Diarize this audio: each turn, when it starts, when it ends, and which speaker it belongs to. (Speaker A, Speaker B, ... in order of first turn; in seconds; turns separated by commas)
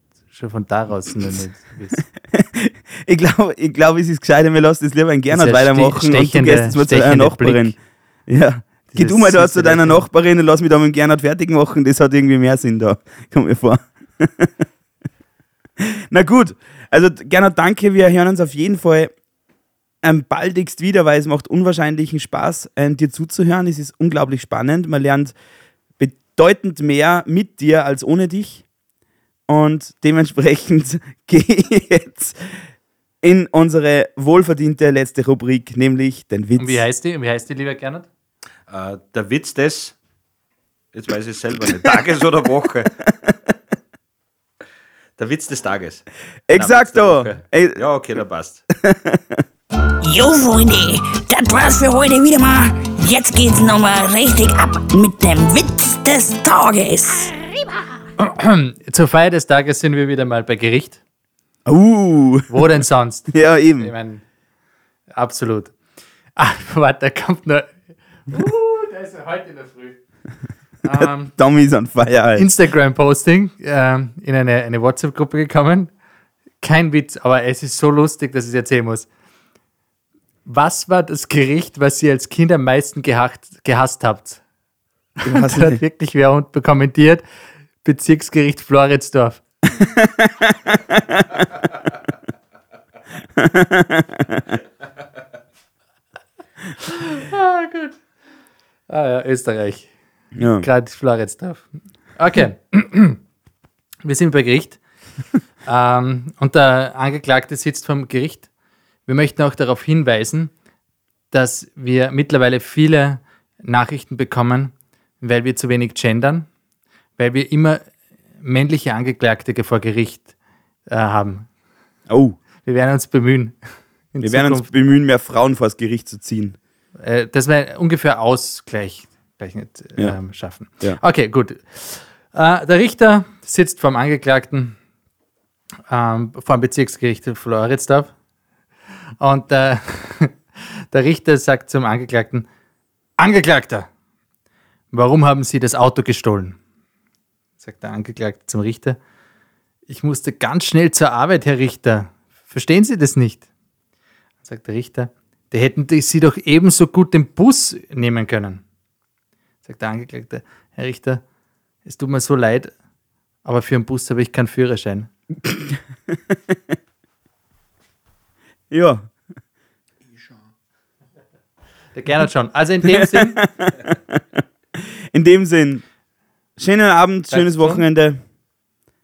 Speaker A: 0.3-2.0, Speaker B: 2.3-14.6, Speaker A: 5.3-7.8, Speaker A: 8.9-10.0, Speaker B: 15.8-19.1, Speaker B: 20.0-25.3, Speaker B: 26.0-28.6, Speaker B: 29.5-32.6, Speaker B: 33.2-36.8, Speaker A: 36.6-38.1, Speaker C: 38.7-39.9, Speaker C: 40.9-42.9, Speaker C: 45.2-48.6, Speaker B: 46.5-47.8, Speaker B: 48.8-49.4, Speaker D: 50.0-57.5, Speaker A: 58.2-61.0, Speaker B: 61.6-62.6, Speaker A: 62.5-64.2, Speaker B: 63.3-63.9, Speaker A: 65.1-65.7, Speaker A: 66.3-70.0, Speaker A: 70.8-71.3, Speaker B: 71.0-72.5, Speaker A: 72.3-75.9, Speaker A: 76.6-79.1, Speaker A: 80.4-84.4, Speaker A: 85.2-87.2, Speaker B: 85.2-85.8, Speaker A: 87.8-89.4, Speaker B: 89.9-91.2, Speaker B: 93.3-94.4, Speaker A: 96.8-98.0, Speaker A: 98.9-99.9, Speaker B: 100.3-100.7, Speaker A: 100.6-103.2, Speaker A: 104.0-104.8, Speaker A: 105.6-108.5, Speaker A: 109.0-110.5, Speaker A: 111.3-116.5, Speaker A: 117.2-117.8, Speaker A: 118.4-120.3, Speaker A: 120.9-121.5, Speaker B: 122.1-122.3, Speaker A: 122.6-123.6, Speaker A: 124.1-124.7, Speaker B: 124.2-126.6, Speaker A: 127.0-134.8, Speaker A: 135.9-138.1, Speaker A: 139.2-142.5, Speaker A: 143.2-143.9, Speaker A: 144.9-146.6, Speaker A: 147.6-149.0, Speaker A: 149.9-153.4, Speaker A: 154.4-158.6, Speaker A: 159.6-161.2, Speaker A: 161.8-162.7, Speaker A: 163.4-165.1, Speaker B: 165.5-166.6, Speaker B: 168.7-169.1, Speaker A: 171.9-173.4, Speaker B: 172.9-175.8, Speaker B: 176.6-178.2, Speaker A: 177.3-177.8